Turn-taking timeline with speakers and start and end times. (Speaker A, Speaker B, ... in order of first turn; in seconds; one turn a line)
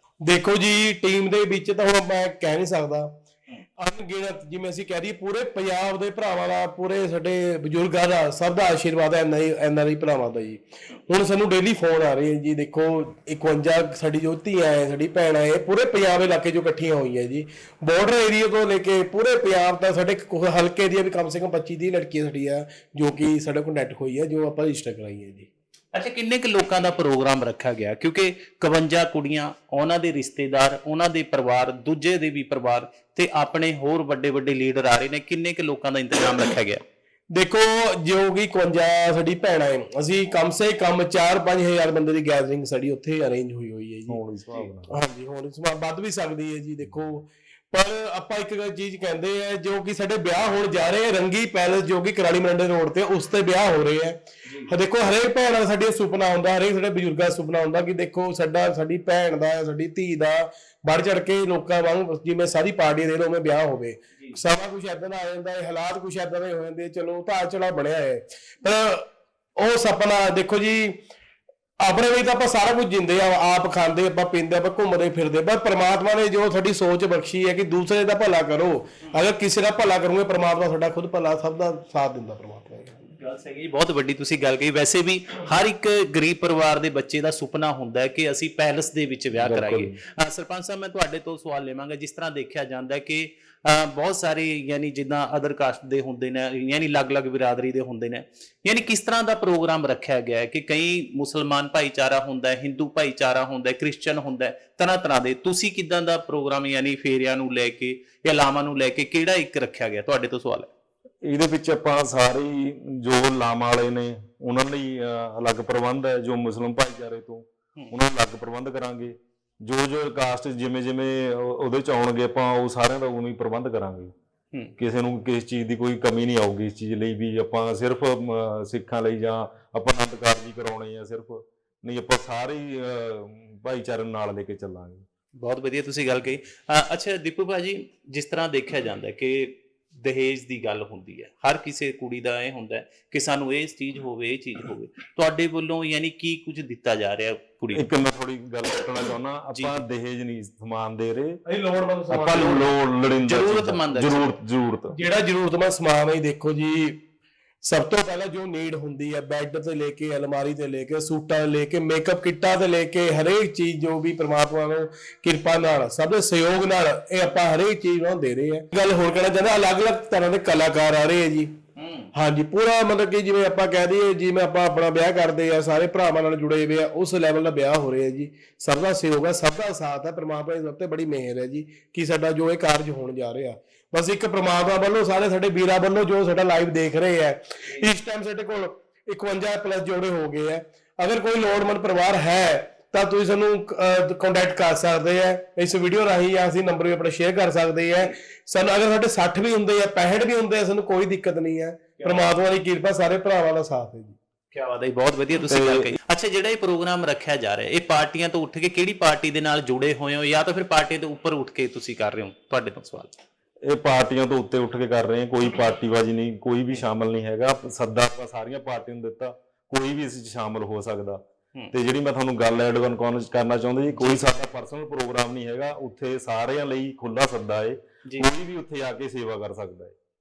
Speaker A: 0.2-3.1
Speaker A: 3.8-25.5
Speaker B: 25.9-36.8
Speaker A: 37.3-44.2
Speaker C: 44.1-45.0
Speaker A: 44.9-71.0
Speaker B: 54.4-54.7
Speaker A: 71.8-83.0
Speaker B: 83.1-110.7
Speaker C: 89.3-90.0
Speaker C: 111.2-124.1
Speaker C: 124.8-135.0
Speaker B: 135.4-147.9
Speaker C: 147.7-151.4
Speaker A: 151.4-152.6
Speaker C: 152.1-154.9
Speaker B: 153.2-154.4
Speaker A: 154.9-157.0
Speaker A: 157.6-171.5
Speaker B: 171.8-172.1
Speaker A: 172.1-204.2
Speaker B: 202.0-202.3
Speaker B: 204.5-213.2
Speaker C: 205.5-205.9
Speaker C: 213.6-229.9
Speaker B: 223.9-224.3